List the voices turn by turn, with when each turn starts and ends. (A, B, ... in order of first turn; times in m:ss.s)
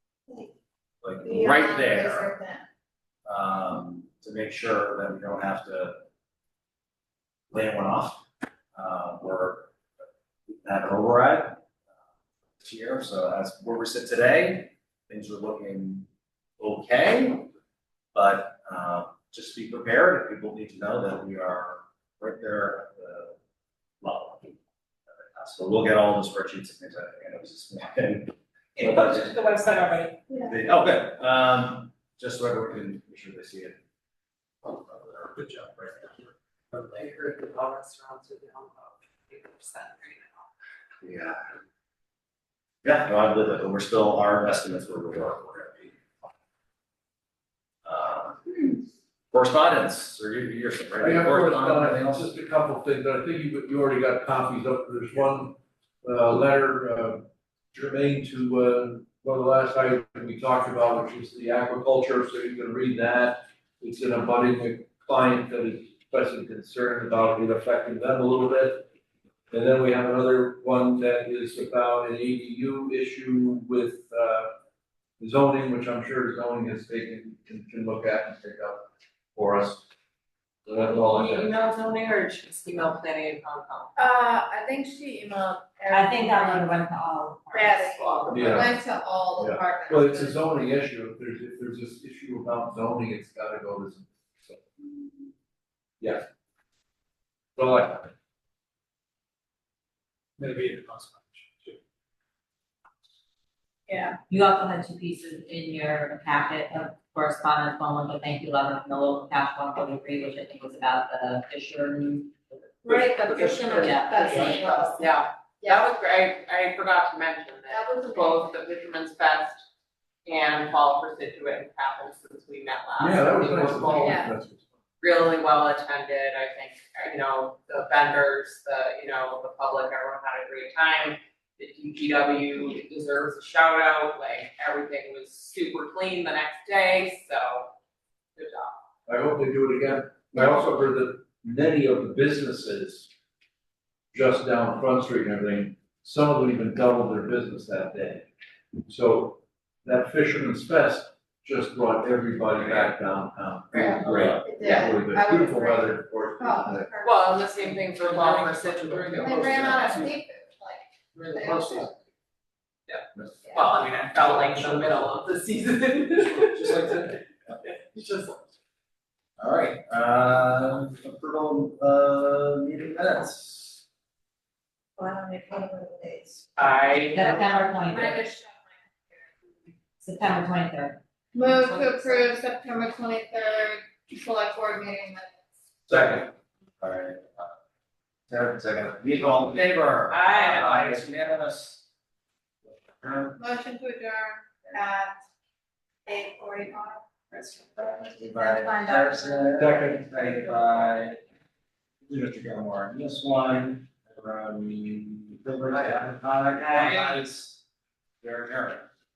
0:01.0-0:02.3 A
0:01.2-0:02.6 B
0:03.2-0:06.0 A
0:07.5-0:09.7 A
0:10.5-0:11.6 A
0:12.6-0:16.1 A
0:16.6-0:17.5 A
0:18.1-0:23.4 A
0:24.0-0:24.6 A
0:25.1-0:29.4 A
0:29.1-0:30.1 C
0:30.4-0:33.8 A
0:34.6-0:36.3 A
0:36.7-0:40.4 C
0:41.0-0:41.4 A
0:42.8-0:46.0 A
0:47.8-0:48.8 A
0:49.3-0:52.3 A
0:51.0-1:08.8 D
1:09.5-1:14.5 D
1:15.2-1:19.8 D
1:20.7-1:21.5 D
1:20.8-1:23.9 C
1:24.0-1:26.8 B
1:25.9-1:28.2 E
1:27.5-1:30.4 B
1:28.1-1:28.6 C
1:28.3-1:28.7 D
1:29.4-1:34.6 D
1:36.0-1:36.2 D
1:37.6-1:38.1 D
1:43.9-1:44.2 B
1:44.3-1:52.5 E
1:52.8-1:55.0 B
1:52.9-1:54.7 A
1:53.8-1:54.7 E
1:54.7-1:59.6 C
1:57.7-1:58.5 B
2:00.2-2:04.2 C
2:03.0-2:04.6 D
2:04.0-2:04.3 B
2:05.0-2:17.7 C
2:18.4-2:18.8 C
2:19.1-2:23.1 D
2:24.1-2:28.3 D
2:28.9-2:36.9 D
2:34.0-2:34.5 A
2:34.4-2:37.8 B
2:37.0-2:40.1 C
2:39.1-2:41.9 B
2:41.1-2:41.9 C
2:42.9-2:47.2 C
2:46.5-2:47.1 A
2:47.9-2:48.3 C
2:49.4-2:53.8 A
2:55.0-2:56.4 B
2:56.6-2:57.4 C
2:57.1-2:58.3 E
2:57.3-2:58.6 B
3:00.0-3:01.0 E
3:01.3-3:05.4 B
3:01.6-3:01.9 E
3:05.9-3:06.3 D
3:06.8-3:07.5 A
3:08.3-3:11.8 A
3:10.1-3:10.6 C
3:12.7-3:13.4 A
3:13.4-3:15.2 B
3:16.0-3:19.0 B
3:17.8-3:21.2 A
3:19.0-3:19.4 E
3:22.1-3:27.6 A
3:28.2-3:28.9 A